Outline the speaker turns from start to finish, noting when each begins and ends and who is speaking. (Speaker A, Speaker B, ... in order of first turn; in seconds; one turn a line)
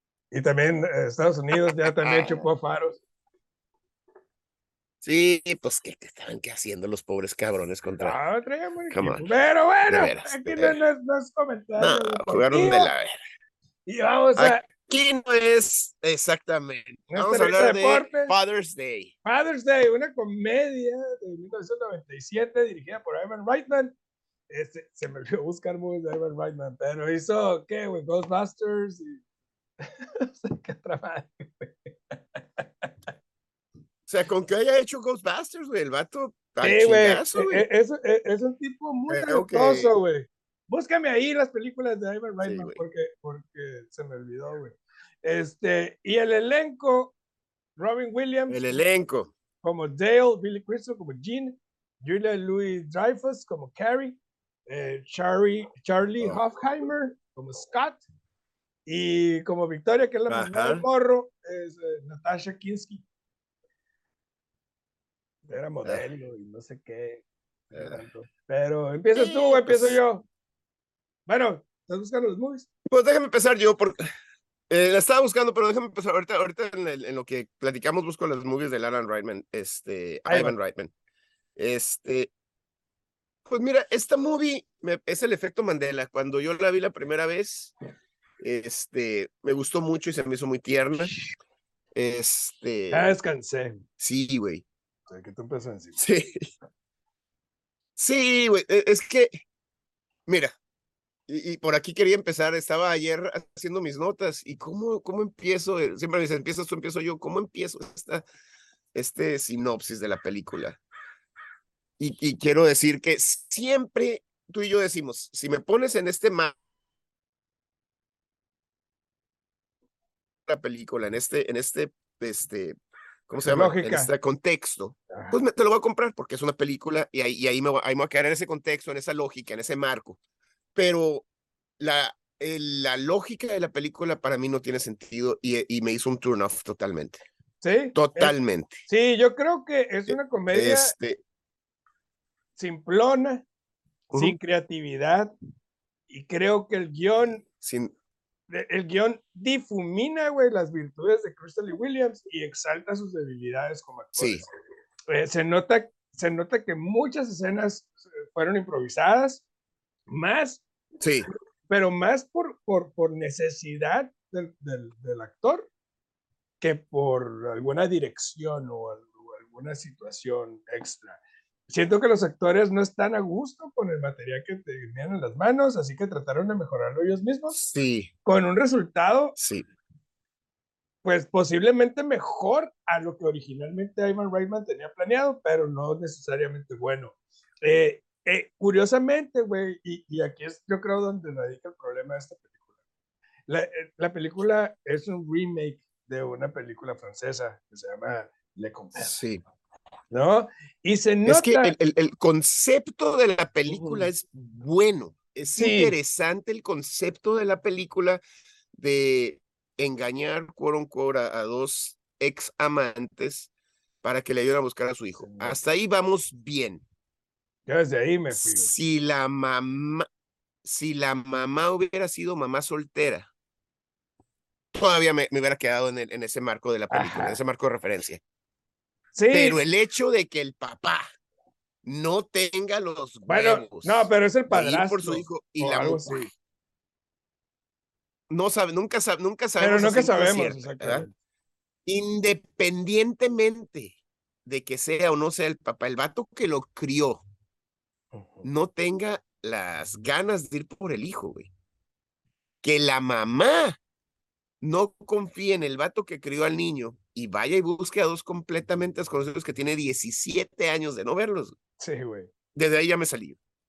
Speaker A: 0.3-3.0
Speaker B: 1.8-2.5
Speaker B: 5.0-8.2
Speaker A: 8.0-12.9
Speaker B: 8.9-9.2
Speaker B: 9.9-10.8
Speaker B: 11.8-13.1
Speaker A: 13.8-14.7
Speaker B: 14.3-19.1
Speaker A: 17.1-18.4
Speaker A: 19.2-23.9
Speaker A: 24.5-29.2
Speaker A: 29.8-32.9
Speaker B: 34.1-37.7
Speaker A: 36.6-47.1
Speaker B: 39.1-39.9
Speaker B: 42.4-42.8
Speaker A: 47.8-48.8
Speaker B: 48.5-49.3
Speaker A: 49.6-58.0
Speaker A: 58.9-63.0
Speaker B: 60.3-60.8
Speaker A: 65.5-70.2
Speaker B: 67.7-68.0
Speaker B: 69.2-70.0
Speaker A: 71.3-72.7
Speaker B: 72.8-74.0
Speaker B: 74.7-80.9
Speaker A: 80.3-80.6
Speaker B: 81.6-82.3
Speaker B: 83.5-87.7
Speaker B: 88.4-91.1
Speaker B: 91.9-93.1
Speaker A: 92.9-93.8
Speaker B: 94.0-94.6
Speaker A: 95.1-96.0
Speaker B: 96.0-96.5
Speaker B: 98.0-99.3
Speaker B: 100.3-100.5
Speaker B: 101.3-108.2
Speaker B: 108.9-110.8
Speaker B: 112.0-116.5
Speaker B: 120.5-122.8
Speaker B: 123.3-130.2
Speaker A: 123.4-124.1
Speaker A: 125.1-125.4
Speaker B: 130.8-131.3
Speaker B: 131.8-137.2
Speaker A: 137.6-138.3
Speaker B: 137.9-138.8
Speaker A: 138.9-140.9
Speaker B: 140.1-141.2
Speaker A: 142.6-143.4
Speaker A: 144.1-145.3
Speaker A: 146.1-147.4
Speaker B: 147.2-147.9
Speaker A: 148.5-154.5
Speaker B: 154.2-154.4
Speaker A: 155.1-159.4
Speaker A: 160.1-160.6
Speaker B: 161.0-161.3
Speaker A: 161.7-165.7
Speaker A: 166.6-177.6
Speaker B: 177.5-178.1
Speaker A: 178.2-179.4
Speaker B: 179.4-179.7
Speaker A: 181.0-192.5
Speaker A: 193.5-199.1
Speaker B: 199.0-199.4
Speaker A: 200.1-201.7
Speaker B: 201.2-208.2
Speaker A: 203.7-204.1
Speaker A: 205.6-205.9
Speaker B: 208.7-213.5
Speaker B: 214.0-216.8
Speaker A: 215.2-215.6
Speaker A: 217.7-218.7
Speaker B: 218.3-220.1
Speaker B: 220.6-223.3
Speaker B: 224.7-228.2
Speaker A: 226.9-227.4
Speaker A: 229.1-229.6
Speaker B: 229.3-231.1
Speaker B: 231.8-236.3
Speaker A: 233.3-236.3
Speaker B: 238.3-241.1
Speaker A: 239.6-241.1
Speaker B: 241.9-247.2
Speaker A: 248.1-248.5
Speaker B: 248.4-251.5
Speaker B: 252.6-253.8
Speaker B: 254.6-261.6
Speaker A: 261.8-262.3
Speaker B: 262.5-263.4